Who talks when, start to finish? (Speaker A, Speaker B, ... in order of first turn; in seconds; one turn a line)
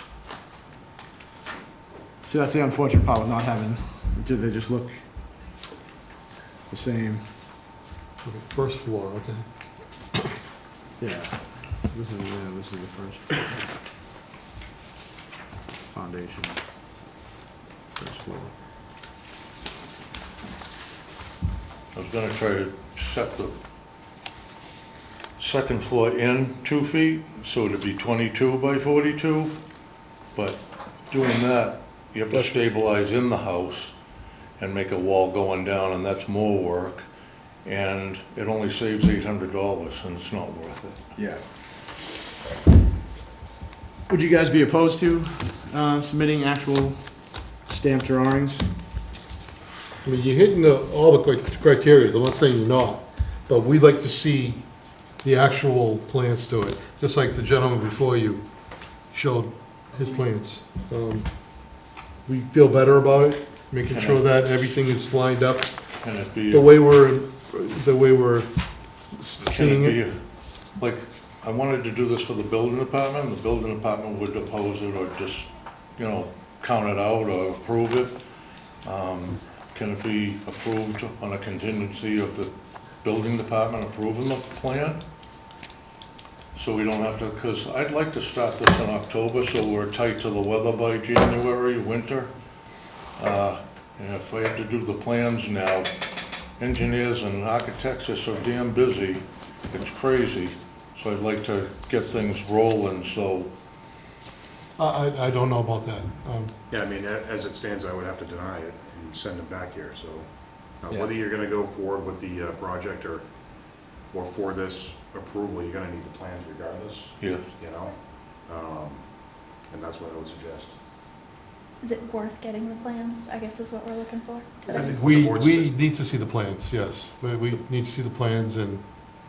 Speaker A: 2.2-5.0
Speaker A: 6.7-7.2
Speaker B: 8.2-9.4
Speaker A: 11.0-13.7
Speaker A: 15.9-16.6
Speaker A: 18.0-18.5
Speaker C: 21.9-23.6
Speaker C: 25.4-29.5
Speaker C: 30.3-33.9
Speaker A: 32.3-32.6
Speaker C: 34.6-37.0
Speaker C: 37.6-41.0
Speaker A: 41.1-41.4
Speaker A: 44.1-47.0
Speaker A: 47.6-48.7
Speaker B: 50.0-54.6
Speaker B: 55.2-58.4
Speaker B: 59.1-61.3
Speaker B: 62.2-65.7
Speaker C: 63.9-64.2
Speaker C: 66.0-66.7
Speaker B: 66.5-68.5
Speaker B: 69.1-70.0
Speaker C: 69.4-70.2
Speaker C: 70.8-78.2
Speaker C: 78.8-82.5
Speaker C: 83.0-85.0
Speaker C: 86.5-92.3
Speaker C: 93.2-95.9
Speaker C: 96.6-103.5
Speaker B: 104.8-106.5
Speaker D: 106.7-113.3
Speaker D: 114.1-120.8
Speaker C: 117.2-117.5
Speaker E: 121.8-124.9
Speaker D: 124.6-125.7
Speaker B: 124.8-128.8